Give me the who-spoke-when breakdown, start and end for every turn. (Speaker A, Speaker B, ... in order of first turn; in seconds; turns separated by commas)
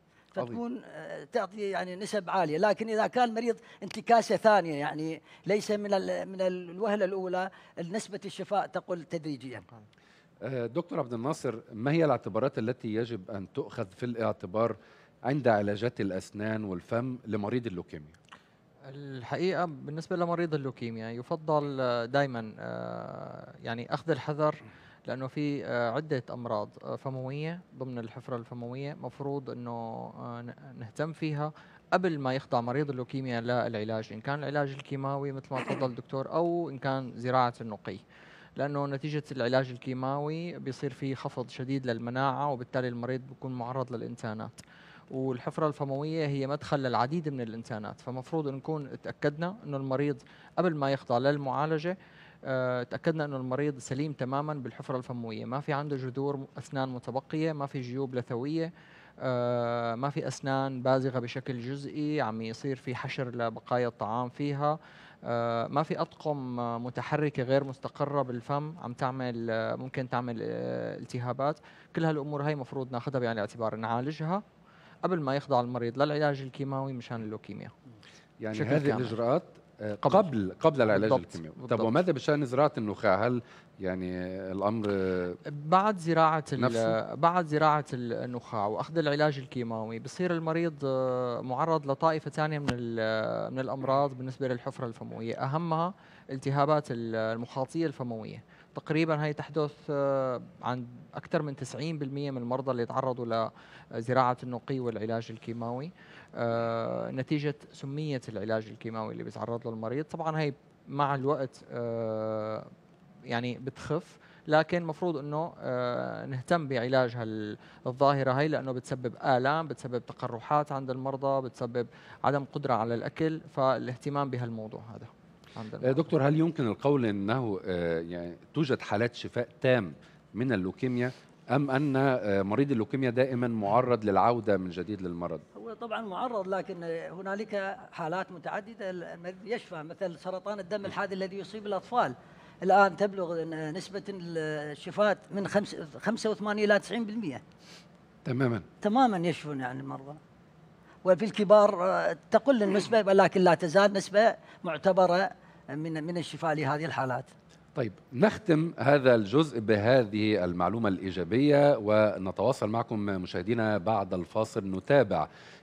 Speaker A: 0.3-9.7, Speaker B: 10.4-18.2, Speaker C: 18.9-38.0, Speaker C: 38.6-44.5, Speaker C: 45.1-74.4, Speaker C: 75.0-77.7, Speaker B: 78.4-85.4, Speaker C: 78.5-79.2, Speaker C: 80.0-80.3, Speaker C: 80.9-81.9, Speaker C: 85.5-112.7, Speaker B: 86.6-87.0, Speaker C: 113.3-126.1, Speaker B: 125.8-135.4, Speaker A: 135.6-147.4, Speaker B: 148.2-148.7, Speaker A: 148.8-150.2, Speaker A: 151.1-157.3, Speaker B: 157.8-165.3